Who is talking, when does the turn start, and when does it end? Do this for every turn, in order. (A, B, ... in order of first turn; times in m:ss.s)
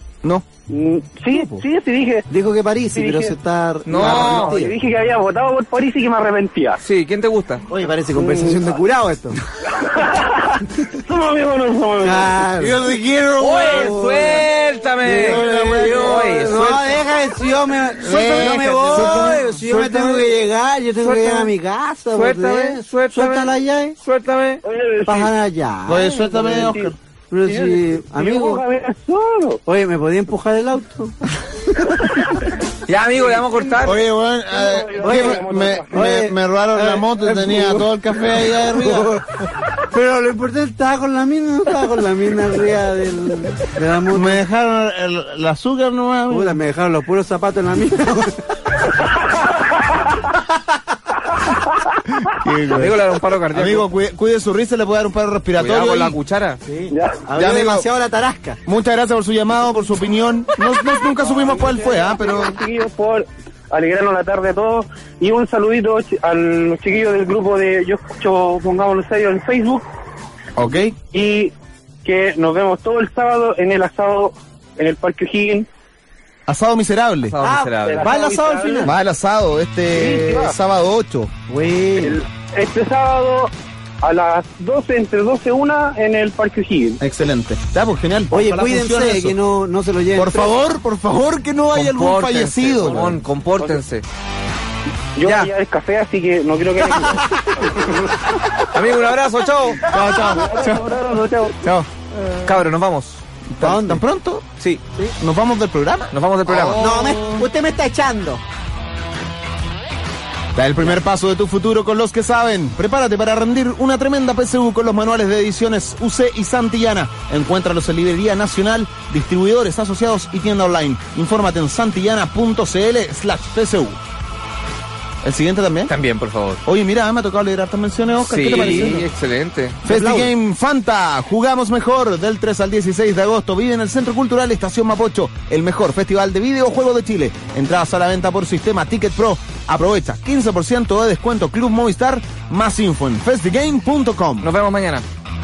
0:00.7-0:02.3 A
0:01.3-0:01.6 B
0:02.3-0:04.7 B
0:03.0-0:03.4 A
0:03.9-0:04.6 C
0:03.9-0:06.8 A
0:06.8-0:07.6 C
0:07.7-0:09.4 B
0:08.2-0:08.6 A
0:09.7-0:12.4 A
0:12.0-0:12.8 B
0:12.6-0:14.3 D
0:13.4-0:17.0 C
0:13.7-0:14.4 B
0:15.0-0:24.0 B
0:15.3-0:16.3 D
0:18.0-0:20.3 D
0:18.4-0:19.5 C
0:21.0-0:21.5 C
0:22.1-0:24.6 C
0:24.6-0:25.3 A
0:25.0-0:26.7 B
0:25.9-0:27.0 D
0:26.2-0:26.9 A
0:27.3-0:28.6 B
0:27.5-0:29.6 A
0:29.7-0:31.2 B
0:32.9-0:34.0 C
0:33.2-0:36.1 A
0:33.8-0:39.1 D
0:35.0-0:37.9 B
0:38.4-0:44.4 B
0:44.1-0:46.6 D
0:46.3-0:48.4 B
0:52.2-0:53.0 D
0:52.7-0:53.9 C
0:53.5-0:56.2 D
0:55.6-0:56.6 C
0:56.7-0:58.6 B
0:56.9-0:57.2 A
0:57.4-0:57.8 D
0:58.7-1:02.6 D
1:00.8-1:09.8 A
1:10.6-1:11.0 D
1:11.0-1:11.5 A
1:12.0-1:15.7 A
1:16.5-1:17.4 D
1:17.3-1:18.1 C
1:17.4-1:18.9 B
1:17.8-1:19.0 A
1:18.8-1:21.3 D
1:20.0-1:20.6 A
1:21.5-1:22.2 B
1:22.0-1:27.0 A
1:27.0-1:29.4 D
1:28.3-1:30.5 B
1:30.1-1:33.2 D
1:31.7-1:34.0 C
1:35.2-1:38.2 A
1:35.2-1:35.5 C
1:38.7-1:39.8 C
1:39.9-1:40.9 D
1:40.1-1:40.4 B
1:40.2-1:41.6 A
1:41.6-1:41.9 D
1:42.4-1:43.2 C
1:43.5-1:44.5 D
1:43.6-1:44.0 B
1:45.2-1:47.5 D
1:46.1-1:46.8 C
1:46.8-1:48.4 B
1:50.6-2:04.0 D
2:05.2-2:05.9 D
2:05.9-2:06.6 C
2:06.6-2:09.1 D
2:08.2-2:09.8 C
2:08.5-2:09.0 B
2:09.8-2:24.5 D
2:09.9-2:10.3 B
2:24.4-2:25.0 C